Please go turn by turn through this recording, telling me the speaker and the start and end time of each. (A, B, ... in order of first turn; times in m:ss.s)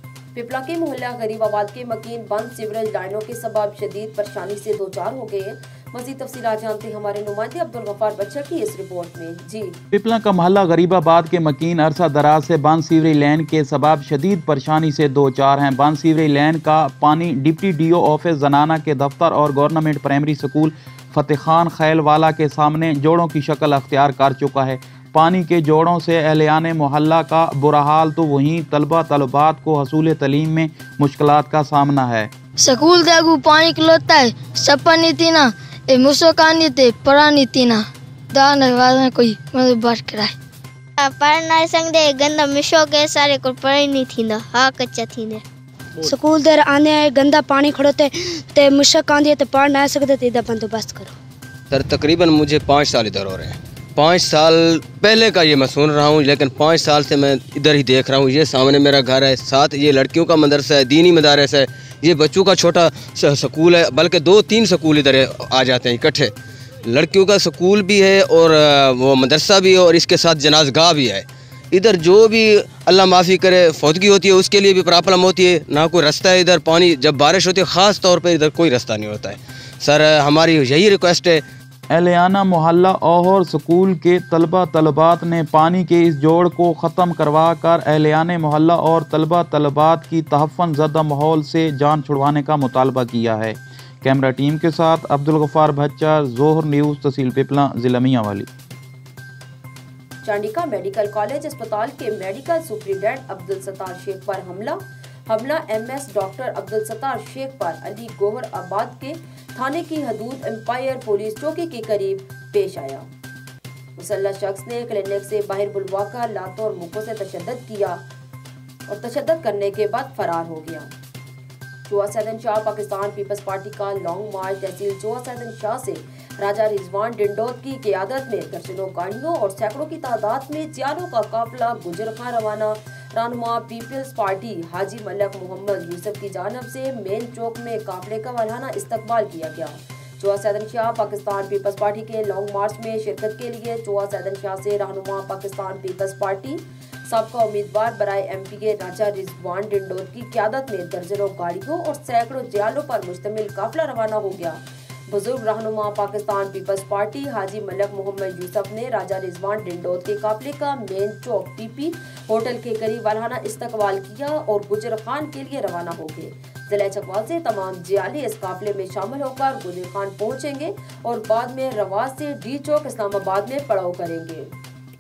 0:00.4-0:09.8 A
0:09.9-0:32.3 B
0:32.6-0:40.4 C
0:41.0-0:45.4 D
0:46.0-0:51.1 E
0:51.7-1:06.3 F
1:06.9-1:21.4 F
1:21.9-1:38.5 B
1:40.2-1:53.1 A
1:54.0-1:58.0 A
1:58.9-2:00.9 A
2:01.9-2:54.5 A